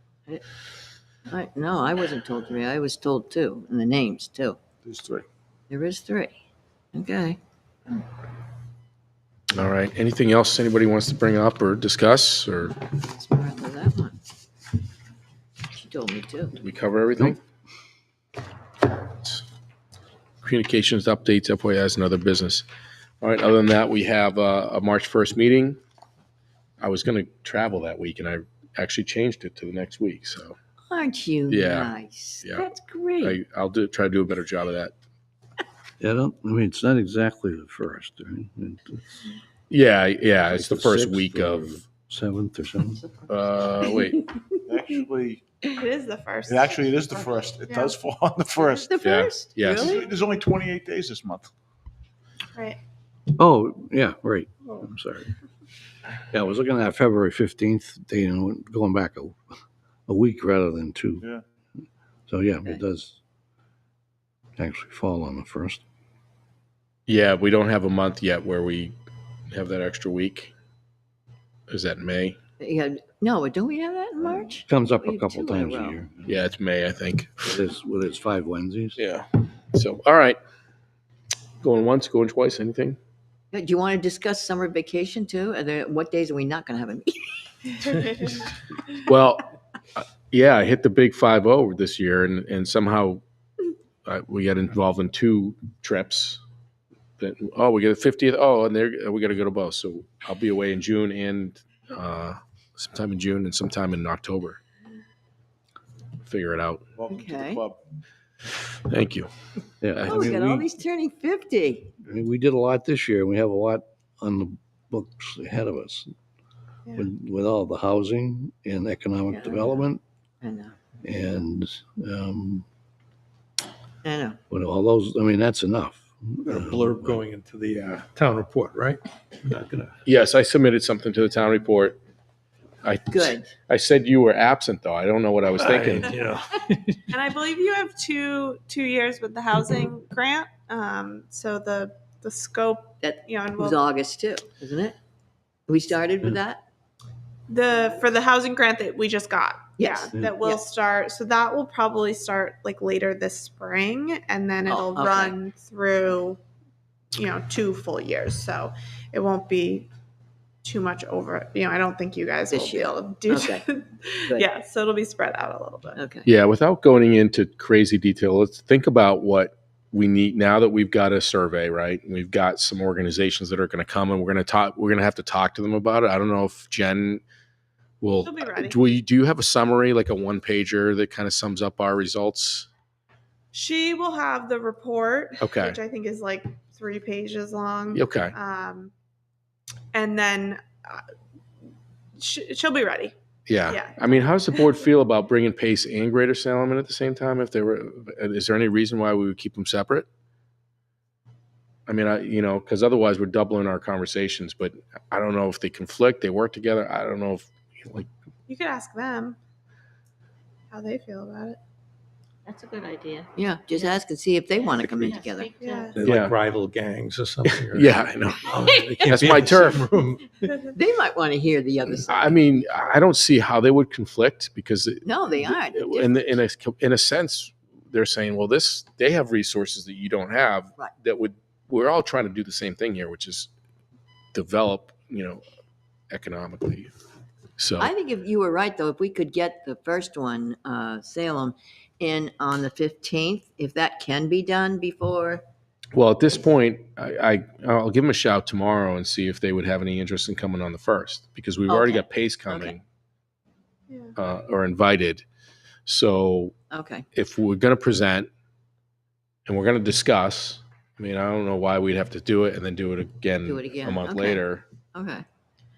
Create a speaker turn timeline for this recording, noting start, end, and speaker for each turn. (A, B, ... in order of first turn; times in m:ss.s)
0:01.3-0:04.6 A
0:04.8-0:05.2 B
0:05.7-0:06.4 A
0:06.9-0:07.4 A
0:09.5-0:12.8 C
0:12.8-0:14.2 A
0:15.7-0:16.6 A
0:16.6-0:17.4 C
0:20.4-0:22.6 C
0:23.2-0:25.8 C
0:26.8-0:30.5 C
0:30.9-0:33.4 A
0:31.5-0:32.7 C
0:33.2-0:34.9 C
0:36.0-0:39.2 D
0:39.7-0:41.8 C
0:40.5-0:43.0 D
0:43.3-0:44.2 C
0:44.7-0:45.4 B
0:45.7-0:46.9 E
0:46.5-0:49.0 B
0:47.7-0:48.0 E
0:48.6-0:50.1 A
0:49.0-0:50.0 C
0:49.6-0:51.5 B
0:52.5-0:52.8 E
0:53.4-0:55.3 D
0:56.3-0:59.4 D
1:00.1-1:01.2 D
1:02.3-1:03.2 D
1:04.6-1:05.8 D
1:07.1-1:08.9 C
1:09.5-1:10.5 C
1:11.7-1:12.4 C
1:12.6-1:16.0 A
1:14.6-1:16.3 D
1:16.3-1:17.6 C
1:17.4-1:19.0 D
1:19.0-1:20.4 C
1:21.6-1:23.0 C
1:23.5-1:27.4 A
1:27.9-1:28.3 E
1:29.0-1:29.4 C
1:30.0-1:33.2 C
1:34.0-1:36.4 C
1:37.2-1:44.6 C
1:46.2-1:46.9 C
1:47.0-1:47.8 B
1:47.1-1:47.6 A
1:48.9-1:49.3 C
1:49.8-1:50.7 D
1:50.0-1:51.9 A
1:52.0-1:56.1 D
1:56.9-2:00.0 D
1:59.3-1:59.9 A
2:00.4-2:00.8 A
2:01.0-2:02.7 D
2:04.0-2:04.4 A
2:04.5-2:07.2 D
2:06.4-2:09.9 F
2:07.8-2:08.0 C
2:10.0-2:12.0 C
2:12.8-2:16.2 C
2:13.1-2:13.5 A
2:15.6-2:17.1 F
2:17.1-2:23.8 E
2:23.0-2:25.0 A
2:25.7-2:26.6 A
2:27.5-2:36.4 E
2:29.8-2:30.6 A
2:34.7-2:35.4 A
2:37.2-2:39.9 E
2:40.6-2:46.0 E
2:42.5-2:43.7 A
2:46.0-2:46.3 A
2:46.2-2:57.2 C
2:58.0-3:02.7 C
2:58.2-2:58.8 E
3:03.5-3:08.9 E
3:05.4-3:05.8 C
3:07.9-3:08.3 C
3:09.9-3:11.0 E
3:12.2-3:13.2 E
3:13.5-3:20.1 C
3:13.7-3:14.8 E
3:21.9-3:28.1 C
3:28.5-3:29.4 E
3:30.7-3:31.6 E
3:32.4-3:34.0 G
3:33.3-3:35.5 A
3:34.8-3:35.9 G
3:35.6-3:36.0 E
3:35.9-3:40.5 F
3:36.0-3:36.3 C
3:37.4-3:39.9 C
3:38.6-3:38.9 G
3:40.7-3:42.4 A
3:42.1-3:53.5 C
3:45.0-3:46.3 A
3:54.3-3:55.4 C
3:56.1-3:56.9 C
3:57.6-3:57.9 C
3:57.8-4:05.4 A
4:05.9-4:12.8 C
4:11.7-4:12.8 A
4:14.2-4:15.2 C
4:15.9-4:16.5 C
4:16.7-4:17.1 A
4:17.1-4:18.3 C
4:19.4-4:24.6 C
4:23.4-4:25.2 A